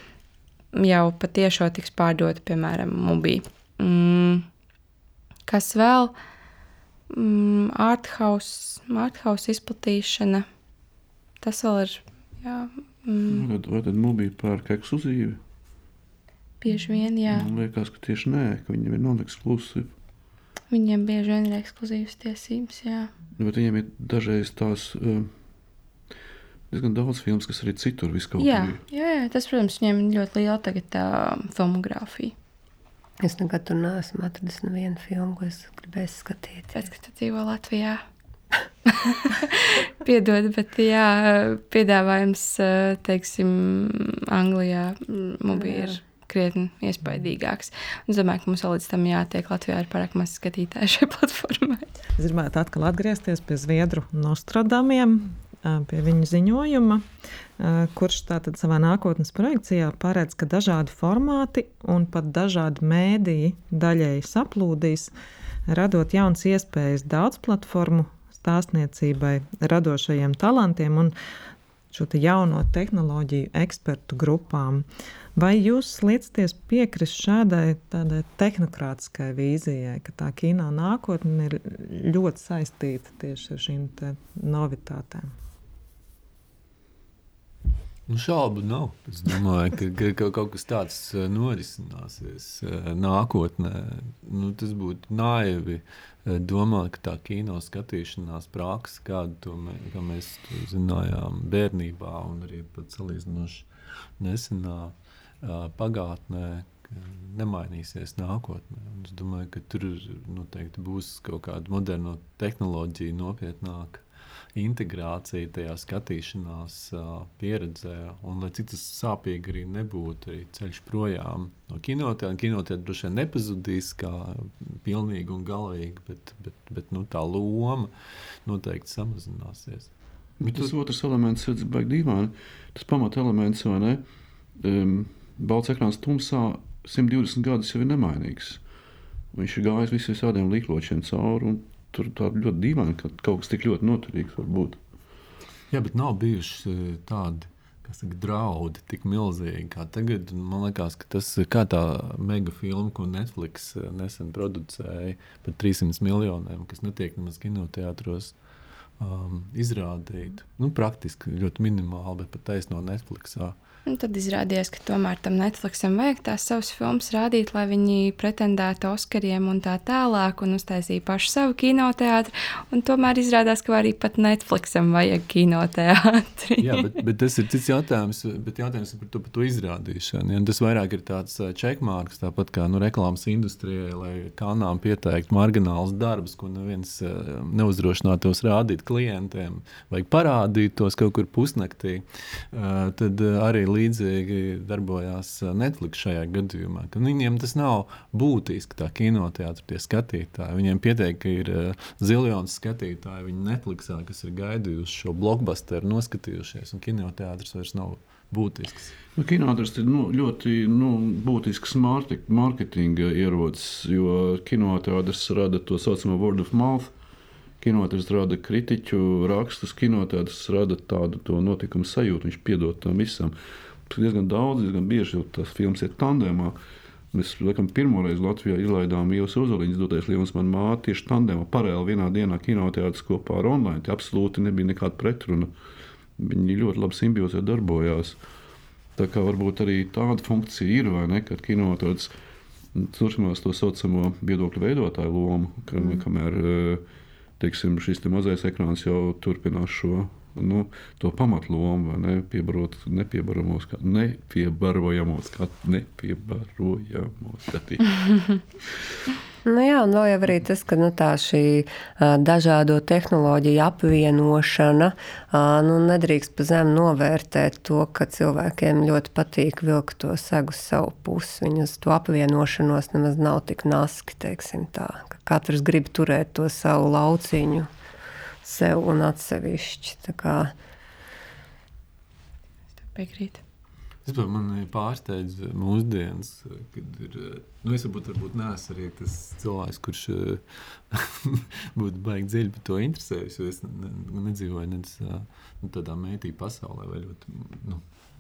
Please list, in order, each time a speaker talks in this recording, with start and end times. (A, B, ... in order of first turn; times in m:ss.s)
0:00.7-0:04.5 A
0:05.5-0:06.1 A
0:07.1-0:10.5 A
0:11.4-0:13.5 A
0:13.3-0:15.4 B
0:16.6-0:17.5 A
0:17.3-0:19.9 B
0:20.7-0:23.1 A
0:23.4-0:25.3 B
0:26.7-0:28.8 B
0:28.4-0:32.3 A
0:33.2-0:36.9 C
0:36.7-0:38.0 A
0:38.9-0:51.9 A
0:52.2-0:57.0 D
0:57.6-1:05.1 D
1:05.7-1:11.2 D
1:11.9-1:25.3 D
1:28.1-1:43.7 E
1:44.2-2:07.9 E
2:08.4-2:10.8 E
2:10.4-2:14.0 B
2:14.6-2:18.6 B
2:19.3-2:24.8 B
2:25.7-2:38.4 E
2:39.0-2:43.6 E
2:43.9-2:56.9 A
2:56.6-3:29.0 E
3:29.2-3:36.9 B
3:37.6-3:43.4 B
3:43.9-3:46.6 B
3:47.1-3:55.5 B
3:56.2-3:58.2 B
3:59.0-4:02.1 B
4:02.8-4:06.8 B
4:07.4-4:18.3 B
4:19.4-4:37.7 C
4:38.4-4:40.5 C
4:42.9-4:43.4 A
4:44.1-4:57.8 E